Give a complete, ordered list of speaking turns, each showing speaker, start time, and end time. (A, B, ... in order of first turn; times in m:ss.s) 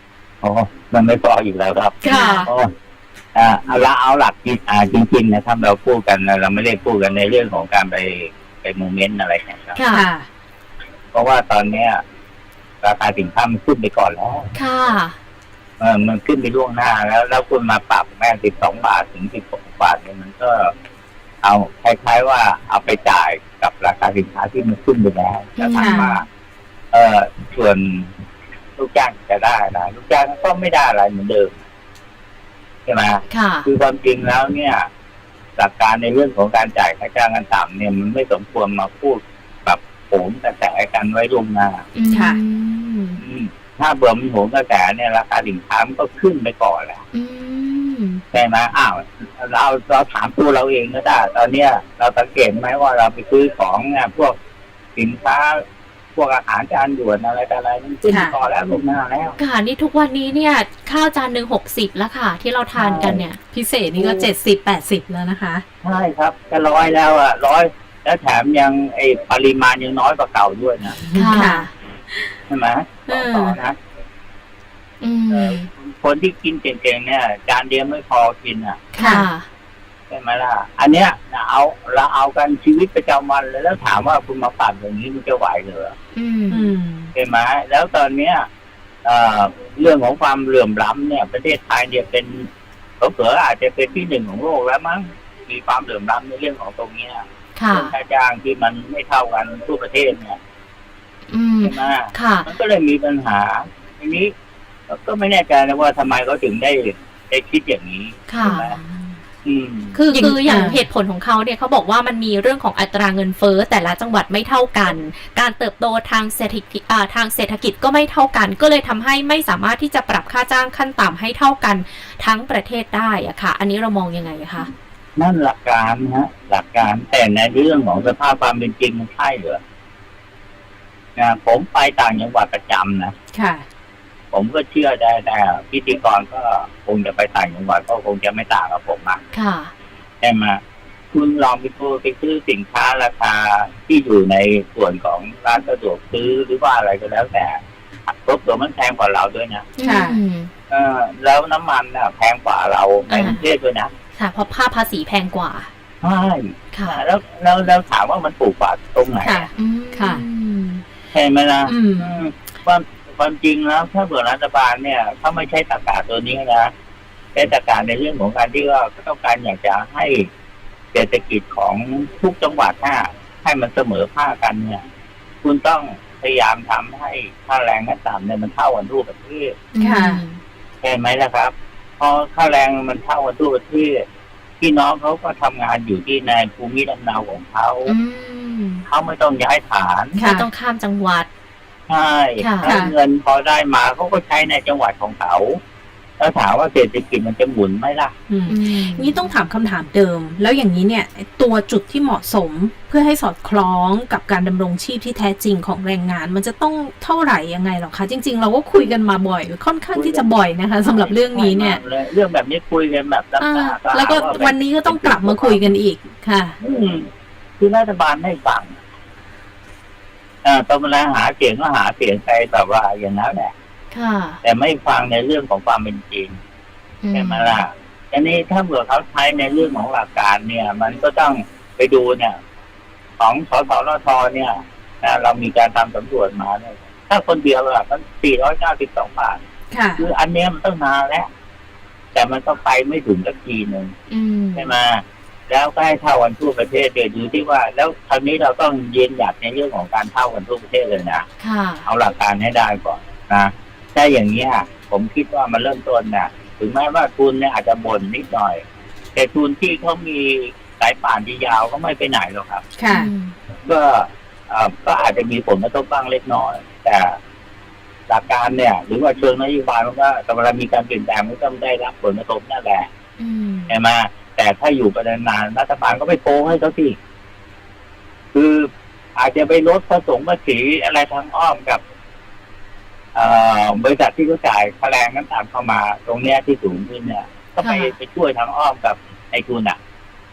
0:00.4-0:02.7 A
0:02.0-0:02.5 B
0:02.0-0:02.5 C
0:03.3-0:09.8 A
0:09.7-0:10.1 B
0:09.9-0:10.3 C
0:11.1-0:12.0 A
0:12.8-0:14.5 A
0:14.5-0:15.2 B
0:15.8-0:20.7 A
0:21.4-0:26.2 A
0:25.6-0:26.1 B
0:25.8-0:26.2 C
0:26.9-0:28.1 A
0:28.8-0:31.6 A
0:32.8-0:34.9 A
0:33.3-0:33.7 B
0:35.6-0:41.8 A
0:41.9-0:43.2 B
0:42.1-0:42.4 C
0:43.2-0:47.0 A
0:47.1-0:48.2 B
0:48.3-0:54.4 A
0:55.0-0:55.6 A
0:56.1-0:59.4 A
0:58.1-0:58.3 C
0:59.4-1:03.4 B
1:02.8-1:03.2 A
1:03.5-1:05.6 C
1:04.0-1:04.3 A
1:05.8-1:11.0 A
1:11.0-1:12.4 C
1:11.1-1:11.7 B
1:12.5-1:13.8 A
1:13.1-1:13.6 C
1:15.0-1:15.7 B
1:15.3-1:18.8 A
1:18.9-1:19.4 B
1:19.0-1:19.3 C
1:20.1-1:25.9 A
1:26.1-1:26.7 B
1:26.5-1:27.1 C
1:27.1-1:28.5 A
1:29.0-1:32.5 A
1:33.0-1:40.4 A
1:37.6-1:37.9 B
1:41.3-1:42.5 B
1:41.6-1:44.3 A
1:44.9-1:48.8 A
1:48.3-1:48.9 B
1:48.4-1:49.1 C
1:49.4-1:50.0 A
1:49.9-2:04.7 B
1:50.1-1:50.8 C
2:05.2-2:09.6 A
2:11.2-2:13.1 A
2:13.3-2:13.6 C
2:14.3-2:19.2 A
2:19.3-2:19.7 B
2:20.2-2:20.6 A
2:21.1-2:29.7 A
2:29.8-2:30.5 B
2:29.8-2:30.2 C
2:30.7-2:33.9 A
2:33.1-2:33.4 B
2:34.1-2:35.7 B
2:36.0-2:39.4 A
2:36.7-2:37.0 B
2:39.2-2:40.2 C
2:39.5-2:40.8 B
2:41.1-2:46.7 A
2:41.7-2:42.2 C
2:47.3-2:50.3 A
2:50.9-2:54.8 A
2:55.4-2:59.6 A
2:59.7-3:00.4 B
2:59.8-3:00.2 C
3:00.8-3:04.0 A
3:04.6-3:07.9 A
3:07.9-3:08.8 B
3:08.9-3:10.2 A
3:10.2-3:11.3 B
3:10.2-3:10.5 C
3:11.9-3:15.6 A
3:12.4-3:12.7 B
3:12.6-3:12.9 C
3:16.2-3:18.1 A
3:18.3-3:31.8 C
3:18.5-3:19.2 B
3:29.9-3:30.3 A
3:30.8-3:35.7 A
3:33.4-3:36.6 C
3:36.6-3:38.8 A
3:40.4-3:43.5 A
3:43.9-3:44.4 B
3:44.4-3:46.4 A
3:47.0-3:47.6 B
3:47.1-3:52.4 A
3:53.2-3:59.4 A
3:59.7-4:00.0 C
4:00.0-4:01.3 A
4:02.1-4:03.9 A
4:04.1-4:04.7 B
4:04.5-4:11.2 A
4:11.4-4:11.8 B
4:11.8-4:18.6 A
4:19.1-4:22.6 A
4:22.8-4:23.1 C
4:22.8-4:23.3 B
4:23.6-4:27.2 A
4:28.1-4:32.9 A
4:33.2-4:33.7 B
4:33.7-4:37.0 A
4:38.3-4:41.8 A
4:43.1-4:49.8 A
4:47.6-4:47.9 B